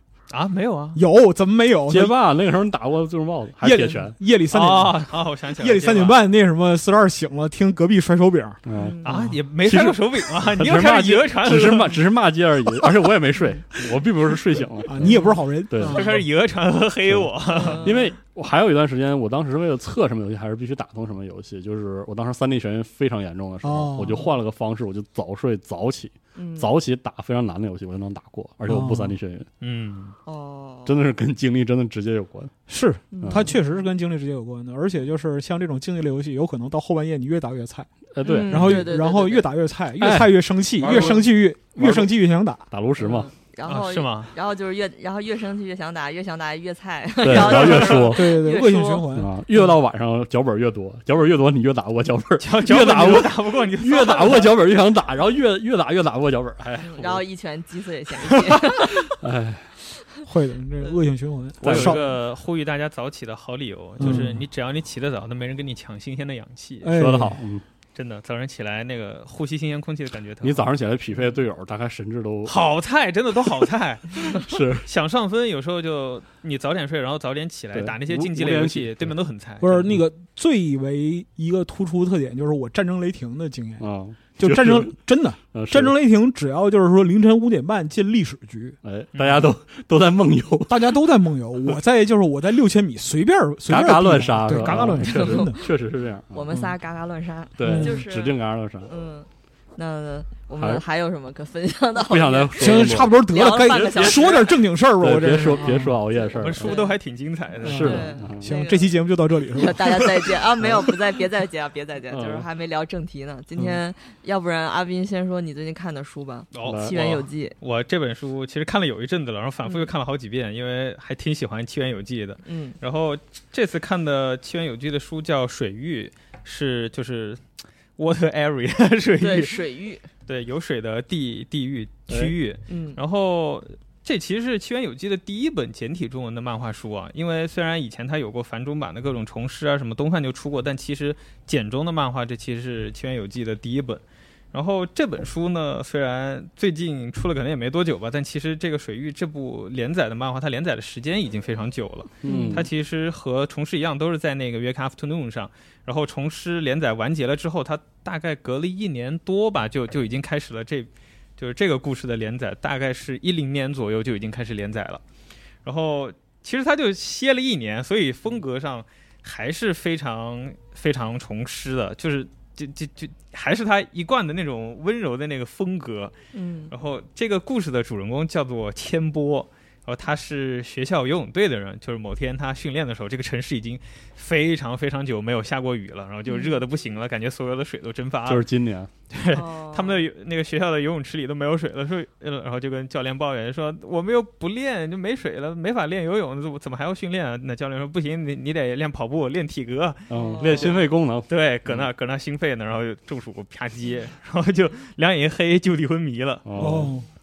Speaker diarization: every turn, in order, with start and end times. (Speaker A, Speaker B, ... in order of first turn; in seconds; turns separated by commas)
Speaker A: 0.3-1.0, Speaker B: 0.9-2.1, Speaker C: 1.9-4.2, Speaker B: 3.6-9.3, Speaker A: 4.5-6.2, Speaker C: 8.7-9.0, Speaker D: 8.8-9.2, Speaker A: 9.0-12.0, Speaker C: 9.6-16.2, Speaker B: 14.8-16.2, Speaker A: 15.8-17.9, Speaker C: 17.1-29.5, Speaker D: 17.5-18.1, Speaker B: 23.6-24.3, Speaker D: 26.4-26.8, Speaker B: 28.7-29.2, Speaker A: 29.6-30.1, Speaker D: 30.3-30.9, Speaker C: 30.9-32.5, Speaker B: 32.7-37.9, Speaker D: 33.1-33.8, Speaker C: 33.2-33.5, Speaker C: 38.1-39.0, Speaker D: 38.2-39.5, Speaker B: 38.5-42.7, Speaker C: 40.0-42.1, Speaker C: 42.7-43.3, Speaker D: 43.0-49.1, Speaker A: 43.6-44.3, Speaker C: 47.2-48.6, Speaker A: 47.6-48.0, Speaker B: 47.7-49.3, Speaker C: 49.1-57.2, Speaker A: 52.4-54.5, Speaker D: 56.8-59.2, Speaker C: 58.7-59.7, Speaker B: 60.2-62.1, Speaker C: 61.6-62.1, Speaker A: 61.6-67.0, Speaker B: 64.0-64.4, Speaker C: 64.0-64.3, Speaker B: 66.8-67.4, Speaker C: 66.9-67.6, Speaker A: 68.0-70.7, Speaker C: 70.4-72.6, Speaker A: 72.5-79.9, Speaker C: 74.3-74.9, Speaker C: 77.7-79.1, Speaker B: 79.6-83.9, Speaker C: 83.8-85.0, Speaker B: 84.4-88.8, Speaker C: 85.5-86.0, Speaker C: 88.8-91.1, Speaker A: 89.1-89.5, Speaker B: 90.7-95.6, Speaker C: 93.7-96.6, Speaker D: 95.0-95.7, Speaker D: 96.3-104.5, Speaker C: 97.6-98.9, Speaker B: 97.6-98.0, Speaker C: 100.6-100.8, Speaker C: 102.0-106.8, Speaker B: 102.6-106.0, Speaker D: 106.2-107.0, Speaker A: 106.3-108.1, Speaker C: 107.6-108.5, Speaker B: 107.6-110.4, Speaker D: 107.8-109.0, Speaker D: 109.5-117.5, Speaker C: 112.1-112.5, Speaker A: 116.5-127.4, Speaker C: 116.6-117.0, Speaker D: 119.6-119.9, Speaker D: 122.4-122.8, Speaker A: 128.0-129.6, Speaker D: 129.2-130.1, Speaker A: 130.3-165.0, Speaker C: 132.1-132.3, Speaker D: 132.7-133.0, Speaker C: 152.2-152.7, Speaker D: 152.2-152.6, Speaker A: 165.6-176.2, Speaker D: 176.3-176.7, Speaker A: 176.7-188.5, Speaker D: 186.3-186.6, Speaker C: 188.3-188.9, Speaker A: 189.1-206.8, Speaker D: 189.3-190.0, Speaker C: 200.1-201.9, Speaker D: 200.1-200.7, Speaker C: 206.5-206.9, Speaker B: 206.6-207.1